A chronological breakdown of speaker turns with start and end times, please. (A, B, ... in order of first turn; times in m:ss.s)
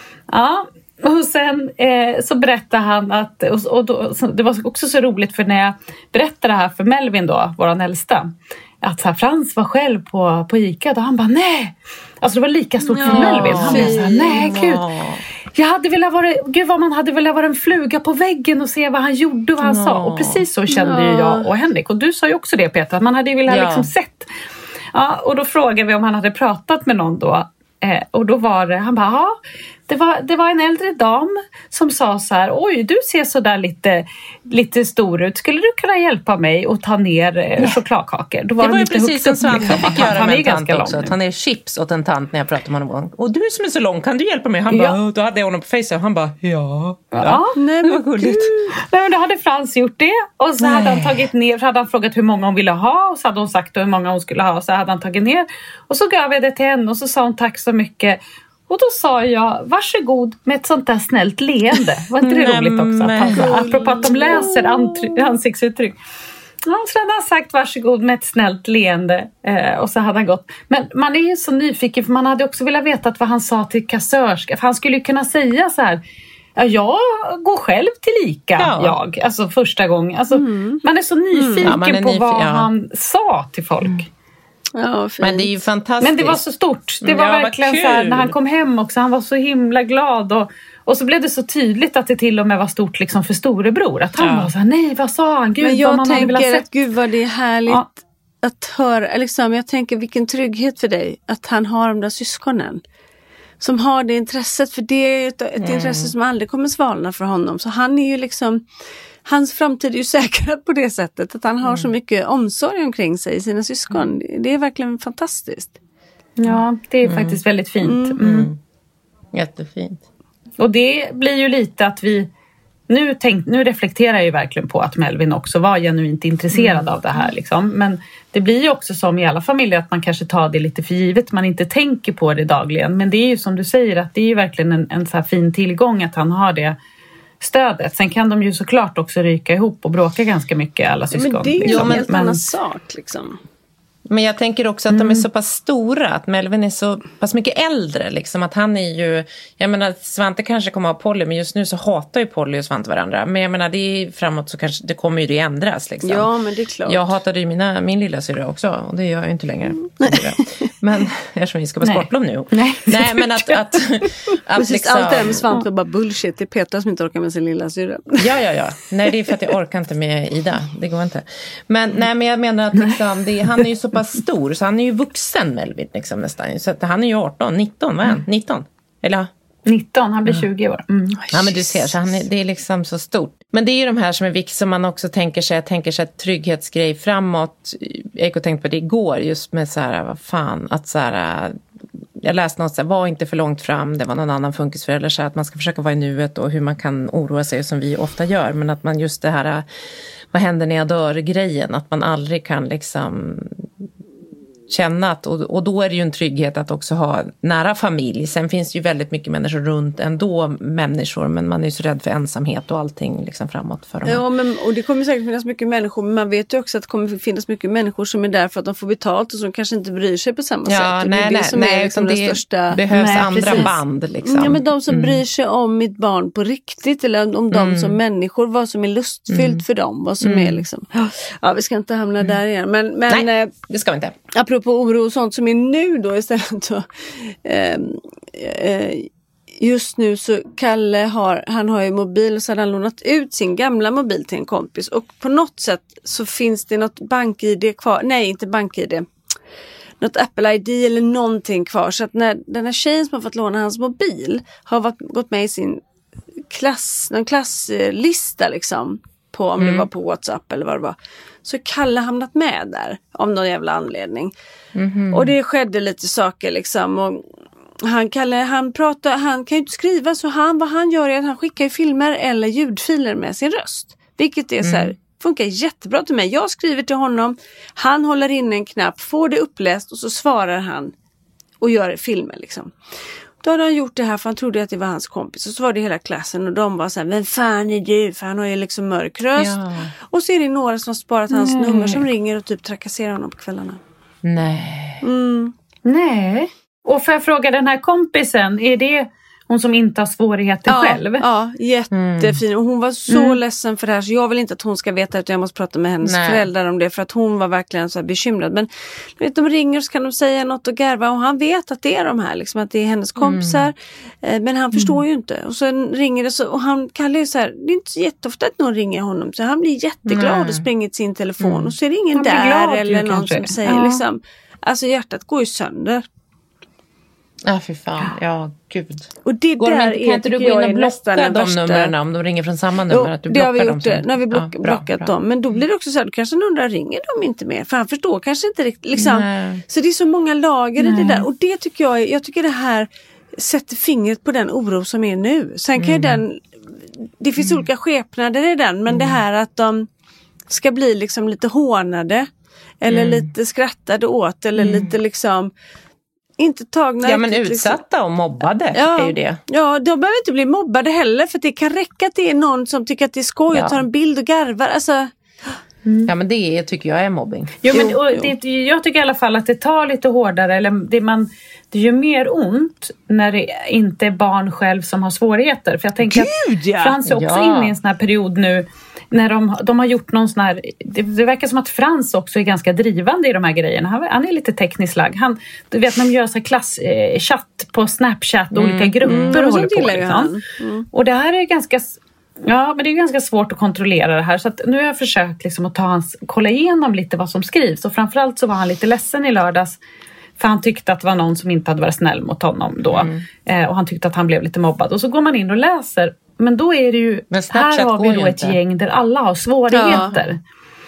0:00.3-0:14.8 A
0:12.8-0:14.1 B
0:13.0-0:15.2 C
0:15.5-0:24.3 A
0:19.6-0:20.4 C
0:20.7-0:21.5 B
0:23.5-0:23.9 C
0:24.9-0:29.4 A
0:29.9-0:41.1 A
0:38.6-0:48.5 C
0:44.7-0:45.0 A
0:47.1-0:47.5 A
0:47.6-0:48.5 B
0:48.8-1:06.0 A
0:50.6-0:51.3 C
1:02.2-1:03.7 C
1:03.3-1:04.6 B
1:06.6-1:16.0 A
1:16.6-1:24.1 A
1:18.6-1:19.0 C
1:20.3-1:20.8 B
1:21.3-1:21.7 B
1:21.6-1:22.7 C
1:24.7-1:25.6 B
1:25.2-1:26.4 C
1:26.0-1:36.6 A
1:27.0-1:28.3 C
1:34.2-1:34.5 C
1:35.6-1:42.8 B
1:43.6-1:48.6 B
1:45.6-1:46.1 C
1:49.2-1:55.8 B
1:51.6-1:51.9 C
1:56.4-1:58.5 A
1:56.5-1:57.4 C
1:57.8-1:58.2 B
1:58.2-1:58.6 C
1:59.3-2:00.0 C
2:00.6-2:02.3 A
2:02.9-2:16.8 A
2:06.5-2:06.8 C
2:17.4-2:22.4 A
2:21.1-2:23.4 B
2:21.7-2:22.0 C
2:24.1-2:36.3 C
2:24.9-2:25.2 A
2:36.0-2:37.1 B
2:36.8-2:45.4 C
2:40.0-2:40.4 B
2:41.8-2:43.5 A
2:44.6-2:48.3 B
2:48.2-2:59.3 C
2:59.7-3:01.3 A
3:01.3-3:11.6 C
3:12.2-3:19.6 C
3:20.3-3:23.7 C
3:24.7-3:34.2 C
3:34.0-3:42.8 B
3:40.7-3:45.2 C
3:42.9-3:43.8 A
3:44.2-3:53.5 B
3:47.5-3:48.0 C
3:49.3-3:49.6 C
3:50.2-3:50.6 C
3:53.1-3:54.2 C
3:54.3-4:09.1 B
4:10.0-4:15.8 B
4:16.5-4:24.3 B
4:19.6-4:19.9 C
4:24.7-4:25.3 C
4:25.1-4:27.2 B
4:27.8-4:40.9 B
4:34.6-4:34.9 C
4:41.6-4:42.7 B
4:43.4-4:53.8 B
4:49.4-4:49.9 C
4:51.7-4:52.0 C
4:54.2-4:55.0 C
4:55.0-4:55.5 B
4:55.8-5:01.2 A
5:00.7-5:26.0 B
5:01.9-5:02.4 C
5:03.1-5:03.4 A
5:06.0-5:06.4 C
5:13.2-5:13.6 C
5:14.8-5:15.0 A
5:20.0-5:20.7 C
5:21.4-5:21.7 C
5:22.1-5:23.9 A
5:27.4-5:35.1 C
5:29.2-5:31.9 B
5:32.9-5:46.4 B
5:38.9-5:39.6 C
5:40.8-5:41.2 A
5:45.8-5:46.2 C
5:47.2-5:49.8 B
5:47.4-5:47.6 C
5:48.9-5:49.2 C
5:50.5-5:52.3 B
5:52.8-5:55.5 B
5:52.9-5:53.3 C
5:54.6-5:54.9 C
5:56.4-5:57.8 B
5:57.0-5:59.4 C
5:58.7-6:05.1 B
6:03.5-6:03.8 C
6:05.8-6:06.1 A
6:06.1-6:07.7 C
6:07.6-6:30.3 A
6:07.7-6:08.3 B
6:16.1-6:16.9 B
6:17.1-6:17.7 C
6:28.5-6:29.4 C
6:29.1-6:30.9 B
6:30.9-6:39.8 A
6:40.4-6:50.4 A
6:42.9-6:43.2 C
6:47.3-6:48.6 C
6:49.7-6:50.1 B
6:49.9-6:50.2 C